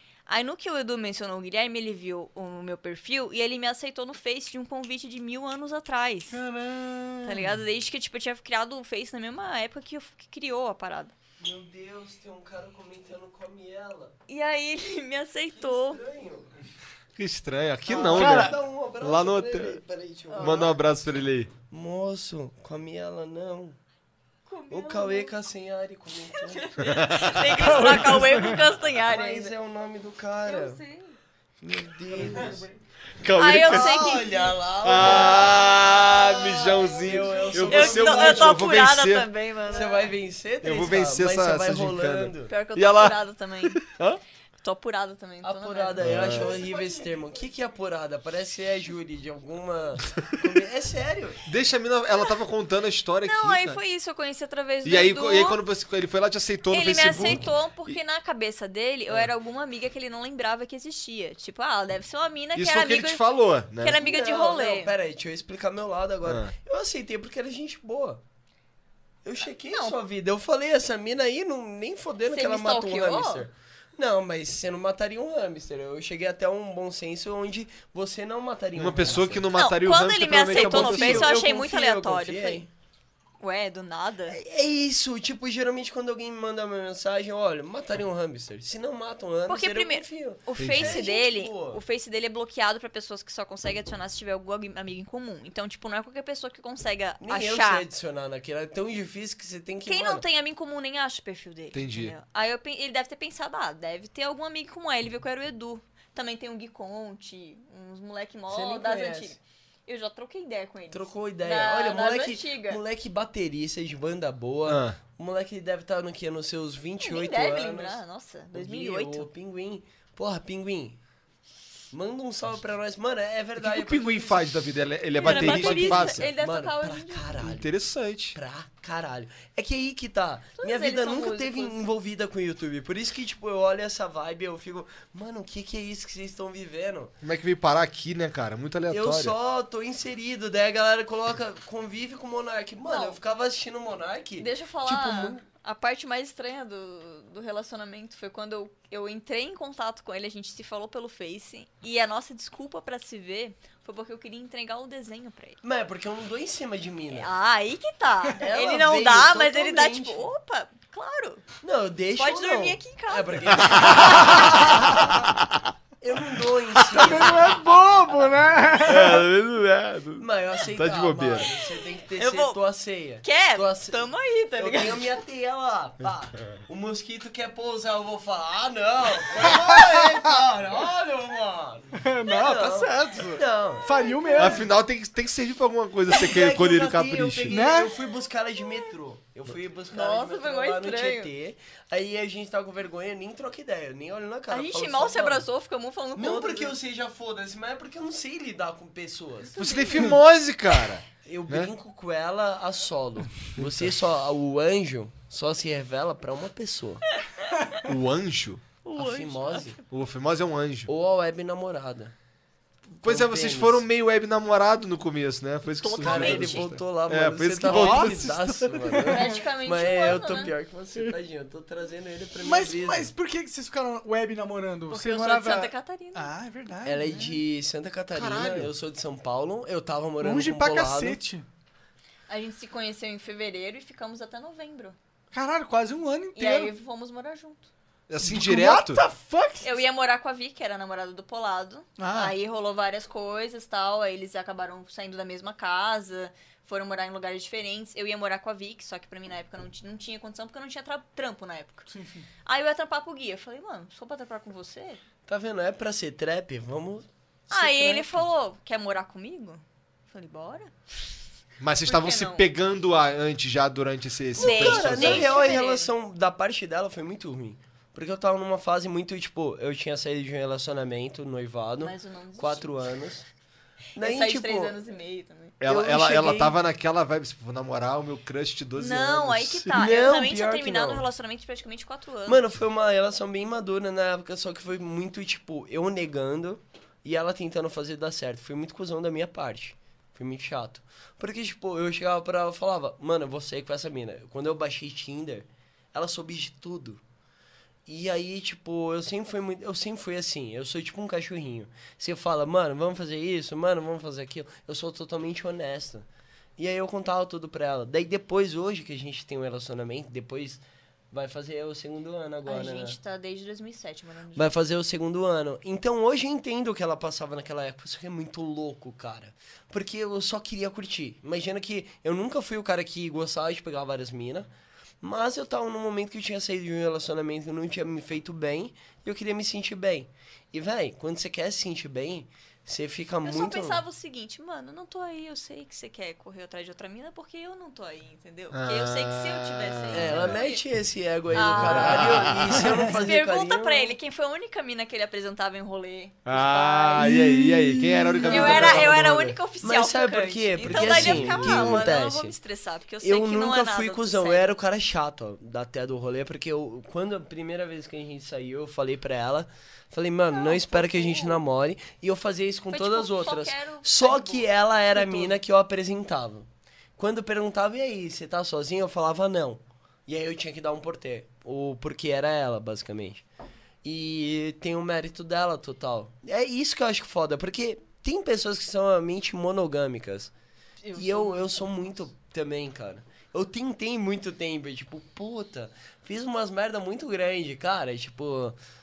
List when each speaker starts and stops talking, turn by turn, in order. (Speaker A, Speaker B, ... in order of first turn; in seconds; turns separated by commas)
Speaker A: 0.3-6.4, Speaker B: 6.3-7.5, Speaker A: 7.2-11.2, Speaker C: 11.4-14.2, Speaker A: 14.3-16.0, Speaker C: 15.5-16.5, Speaker D: 17.2-19.8, Speaker C: 17.9-20.8, Speaker B: 18.1-18.6, Speaker A: 20.3-20.7, Speaker D: 20.4-21.5, Speaker C: 21.7-23.8, Speaker A: 24.5-25.4, Speaker C: 24.7-26.7, Speaker A: 26.4-29.6, Speaker D: 26.8-28.0, Speaker B: 27.6-28.6, Speaker C: 28.9-30.8, Speaker A: 30.4-31.2, Speaker C: 31.6-32.6, Speaker B: 32.1-32.7, Speaker D: 33.2-34.0, Speaker A: 33.4-35.4, Speaker C: 33.4-35.7, Speaker D: 34.8-39.3, Speaker A: 36.0-40.1, Speaker C: 37.0-38.6, Speaker C: 39.7-42.5, Speaker D: 40.6-44.2, Speaker A: 42.5-43.8, Speaker A: 44.6-46.1, Speaker C: 45.4-51.4, Speaker D: 46.0-46.6, Speaker B: 46.2-47.4, Speaker D: 51.5-53.8, Speaker A: 53.2-55.6, Speaker D: 54.8-58.0, Speaker A: 56.7-65.0, Speaker D: 62.5-64.0, Speaker C: 64.0-68.2, Speaker D: 66.2-66.5, Speaker C: 69.2-79.5, Speaker A: 69.6-70.0, Speaker A: 72.3-73.5, Speaker D: 78.8-81.4, Speaker A: 79.5-82.7, Speaker C: 80.5-82.7, Speaker A: 83.4-84.4, Speaker C: 84.3-91.8, Speaker A: 89.5-97.8, Speaker D: 90.6-91.0, Speaker C: 97.2-100.2, Speaker A: 99.9-112.8, Speaker D: 101.7-102.2, Speaker C: 108.5-109.4, Speaker C: 110.9-118.0, Speaker D: 114.7-115.0, Speaker A: 117.0-119.3, Speaker C: 118.5-121.0, Speaker C: 121.9-124.4, Speaker D: 123.6-126.3, Speaker A: 125.2-127.4, Speaker C: 125.2-127.7, Speaker D: 127.4-128.4, Speaker C: 128.3-137.1, Speaker A: 130.6-131.8, Speaker D: 137.2-139.3, Speaker C: 138.9-145.4, Speaker A: 142.9-143.2, Speaker A: 144.4-155.6, Speaker C: 155.6-157.3, Speaker A: 157.1-161.4, Speaker C: 158.4-160.2, Speaker C: 161.6-164.9, Speaker A: 162.2-164.9, Speaker C: 166.0-167.6, Speaker B: 166.9-169.2, Speaker D: 168.8-171.5, Speaker C: 170.2-184.1, Speaker A: 171.6-172.6, Speaker A: 173.2-175.2, Speaker B: 179.4-180.2, Speaker B: 182.0-184.7, Speaker A: 183.9-184.7, Speaker D: 184.3-187.6, Speaker C: 186.1-195.4, Speaker B: 187.5-188.0, Speaker A: 188.6-188.9, Speaker A: 189.9-191.3, Speaker A: 194.5-196.8, Speaker C: 196.2-199.7, Speaker A: 199.6-200.2, Speaker D: 199.6-201.7, Speaker C: 201.2-207.1, Speaker D: 203.6-203.9, Speaker D: 207.9-208.6, Speaker A: 208.8-209.8, Speaker C: 209.0-209.8, Speaker D: 209.9-210.9, Speaker C: 210.9-212.1, Speaker D: 213.0-218.8, Speaker C: 213.0-213.8, Speaker A: 215.8-216.7, Speaker C: 216.0-223.1, Speaker B: 217.6-219.3, Speaker A: 219.1-220.5, Speaker B: 222.4-227.4, Speaker A: 224.9-226.3, Speaker C: 226.8-231.2, Speaker D: 228.1-228.7, Speaker B: 230.2-231.5, Speaker A: 232.3-235.0, Speaker B: 235.3-236.7, Speaker A: 236.3-237.7, Speaker D: 238.1-239.0, Speaker B: 238.2-239.7, Speaker A: 239.6-251.9, Speaker B: 242.0-242.3, Speaker B: 251.9-252.3, Speaker A: 252.5-255.0, Speaker C: 255.3-258.2, Speaker A: 257.5-260.7, Speaker D: 261.6-265.4, Speaker A: 261.9-262.5, Speaker A: 264.4-265.9, Speaker C: 264.4-273.3, Speaker A: 271.8-272.7, Speaker C: 274.0-274.8, Speaker A: 274.0-275.6, Speaker D: 275.6-279.7, Speaker C: 275.6-276.6, Speaker A: 278.8-282.5, Speaker C: 279.7-281.1, Speaker C: 282.3-297.0, Speaker C: 297.9-313.0, Speaker A: 312.5-314.6, Speaker C: 314.4-324.5, Speaker C: 325.0-333.8, Speaker A: 333.2-340.6, Speaker D: 338.5-340.4, Speaker C: 339.9-343.9, Speaker D: 341.3-342.7, Speaker A: 341.3-347.1, Speaker D: 346.3-349.0, Speaker B: 347.0-348.8, Speaker A: 348.3-354.6, Speaker C: 348.4-352.4, Speaker D: 350.7-351.8, Speaker C: 353.0-373.2, Speaker A: 360.3-361.4, Speaker A: 362.7-365.4, Speaker C: 373.8-380.3, Speaker A: 380.8-381.6, Speaker C: 380.9-388.6